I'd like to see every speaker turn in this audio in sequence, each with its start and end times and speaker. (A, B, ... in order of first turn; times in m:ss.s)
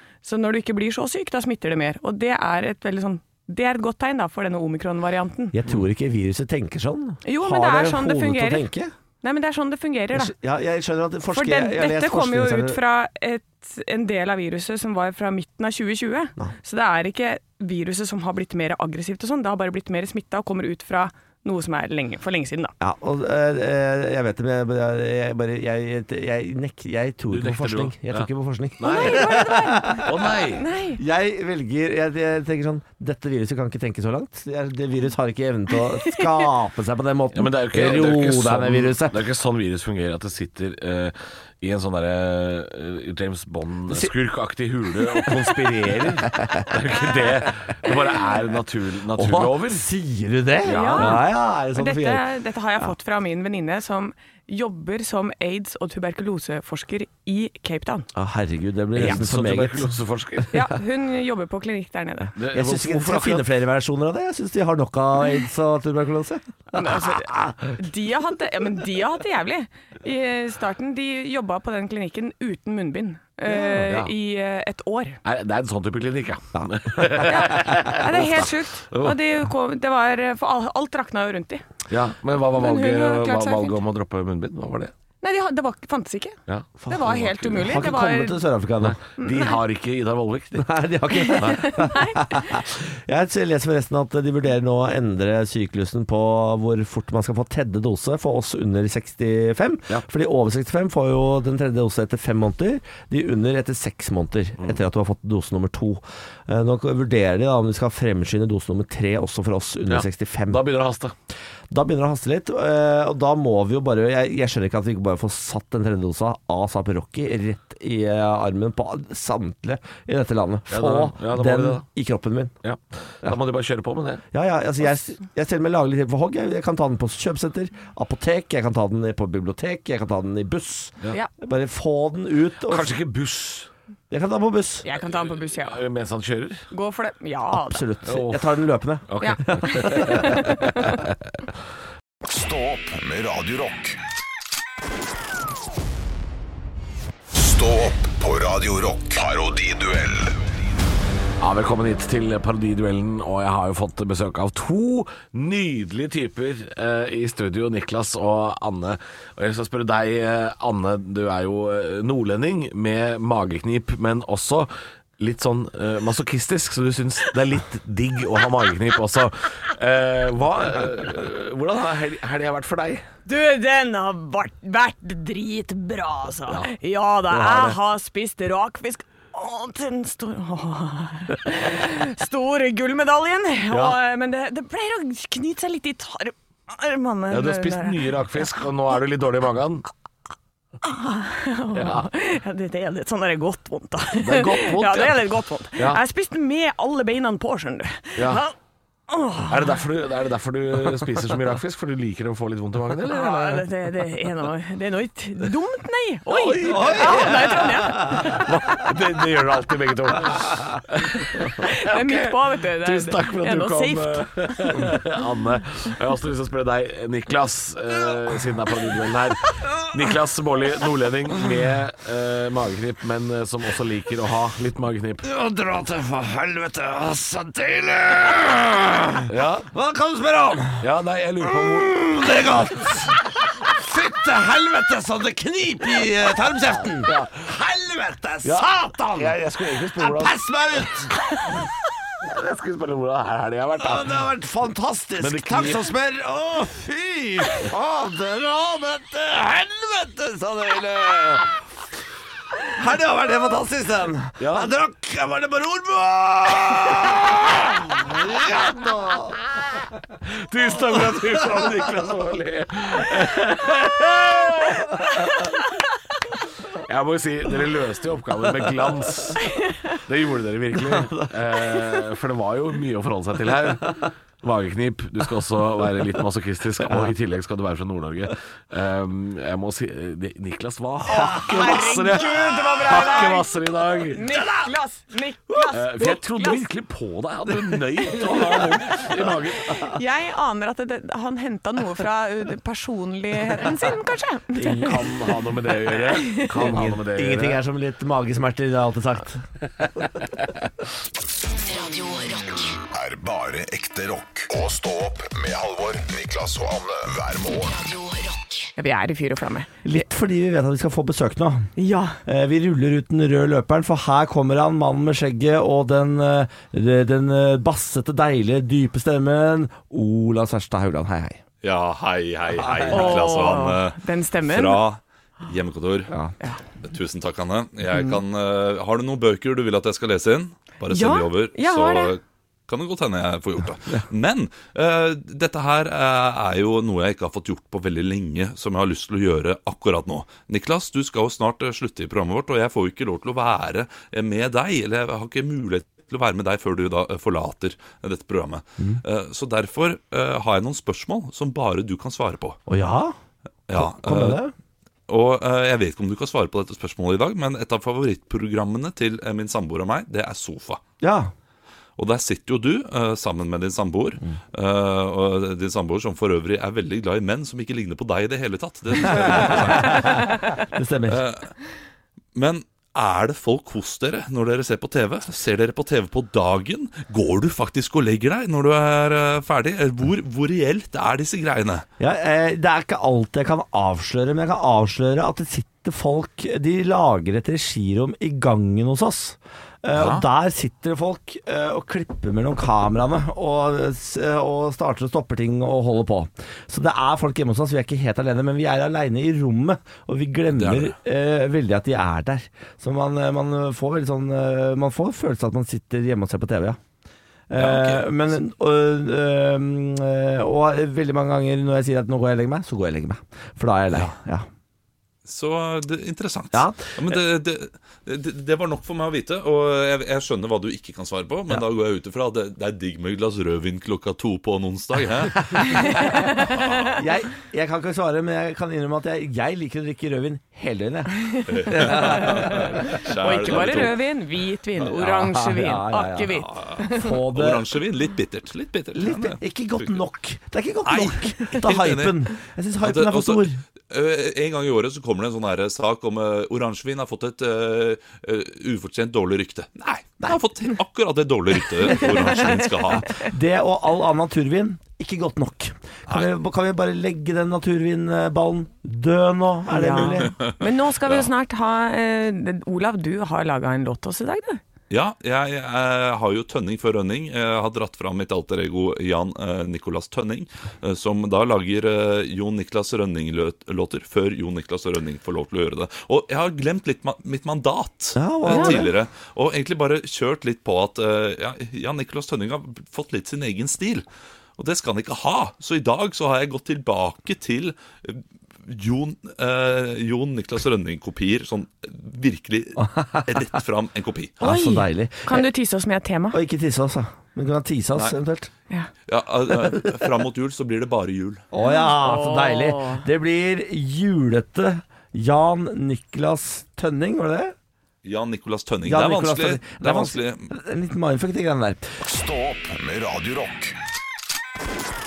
0:00.2-0:05.6 A
0:05.5-0:08.9 B
0:07.2-0:08.7 A
0:09.2-0:10.3 A
0:10.1-0:12.8 B
0:11.3-0:22.7 A
0:22.8-0:30.4 B
0:27.3-0:29.4 C
0:28.8-0:31.0 A
0:30.0-0:30.6 C
0:31.0-0:39.2 B
0:37.3-0:49.8 C
0:49.1-0:52.2 B
0:50.6-0:51.2 C
0:50.7-0:51.2 A
0:51.7-0:58.1 A
0:58.1-0:59.9 B
0:58.9-1:00.6 C
1:00.5-1:02.3 A
1:02.4-1:03.4 C
1:02.5-1:07.7 B
1:06.7-1:15.2 A
1:13.5-1:13.8 B
1:13.8-1:14.1 C
1:15.2-1:19.2 C
1:16.6-1:17.3 B
1:17.2-1:21.6 A
1:21.9-1:24.9 C
1:22.6-1:23.8 A
1:25.2-1:28.4 A
1:26.5-1:27.6 C
1:26.8-1:29.0 B
1:28.8-1:30.7 C
1:29.2-1:29.6 A
1:30.6-1:50.6 B
1:31.2-1:32.5 A
1:49.9-1:51.1 C
1:51.7-2:02.5 B
2:00.7-2:01.8 C
2:02.6-2:04.2 C
2:04.3-2:12.9 B
2:12.6-2:13.7 C
2:14.1-2:14.8 B
2:14.8-2:15.8 A
2:15.0-2:16.6 C
2:16.7-2:17.8 A
2:17.5-2:20.5 B
2:18.0-2:18.5 C
2:19.1-2:21.1 C
2:19.2-2:21.0 A
2:22.2-2:24.0 D
2:27.3-2:30.4 D
2:31.4-2:53.0 C
2:53.2-3:08.1 A
2:57.3-2:57.8 B
3:07.3-3:09.9 C
3:10.8-3:18.5 A
3:11.7-3:12.1 C
3:14.2-3:16.0 C
3:18.2-3:18.4 C
3:19.1-3:19.7 A
3:19.5-3:23.7 C
3:23.1-3:28.5 A
3:26.3-3:27.6 C
3:26.6-3:28.4 B
3:28.1-3:45.2 C
3:31.6-3:34.3 A
3:45.2-3:50.8 B
3:49.3-3:49.7 C
3:50.8-3:52.0 C
3:51.4-3:59.4 B
3:57.0-3:57.4 C
3:58.4-4:00.3 C
4:00.0-4:01.1 B
4:02.2-4:04.2 C
4:03.8-4:11.6 B
4:05.2-4:05.8 C
4:12.6-4:19.4 B
4:14.4-4:14.7 C
4:20.2-4:25.0 C
4:21.1-4:21.6 B
4:23.8-4:24.3 B
4:26.8-4:44.2 C
4:30.8-4:32.0 B
4:41.0-4:42.0 B
4:41.1-4:43.5 A
4:44.1-4:46.6 A
4:44.4-4:44.7 B
4:45.7-4:49.9 C
4:48.0-4:49.1 B
4:49.8-4:55.4 A
4:54.6-4:57.6 C
4:56.1-4:56.5 A
4:56.5-4:59.4 B
5:01.6-5:02.8 E
5:02.9-5:07.8 D
5:07.6-5:08.7 E
5:08.8-5:09.7 A
5:09.8-5:11.7 B
5:11.8-5:12.2 A
5:12.2-5:21.4 B
5:21.6-5:26.1 F
5:22.5-5:23.3 B
5:22.9-5:24.8 A
5:26.8-5:52.6 F
5:30.9-5:32.1 A
5:52.7-5:53.1 B
5:53.7-5:54.4 F
5:53.7-5:54.5 B
5:55.1-6:00.8 F
6:01.0-6:01.3 B
6:02.0-6:10.4 F
6:09.0-6:11.2 B
6:11.1-6:11.5 F
6:12.3-6:21.8 F
6:22.0-6:46.8 B
6:29.9-6:30.2 F
6:40.5-6:40.9 F
6:47.5-6:54.4 B
6:47.5-6:48.2 F
6:55.2-7:07.0 F
6:56.5-6:57.2 B
7:05.4-7:06.1 B
7:05.7-7:06.6 A
7:06.9-7:12.8 B
7:11.3-7:17.1 A
7:11.5-7:14.0 F
7:14.8-7:15.1 F
7:15.0-7:17.8 B
7:16.3-7:20.0 F
7:18.9-7:23.6 B
7:20.8-7:22.3 F
7:22.8-7:33.2 F
7:32.1-7:33.2 A
7:33.0-7:40.3 B
7:39.7-7:44.6 A
7:40.0-7:41.3 F
7:44.9-8:04.0 F
7:58.2-7:58.9 B
7:58.5-7:58.8 A
8:04.6-8:14.4 F
8:12.8-8:13.3 B
8:14.4-8:16.4 A
8:14.4-8:15.5 B
8:16.3-8:18.5 B
8:19.1-8:21.4 F
8:21.5-8:27.6 B
8:21.6-8:23.0 A
8:28.0-8:30.5 F
8:28.8-8:31.8 B
8:32.0-8:33.7 D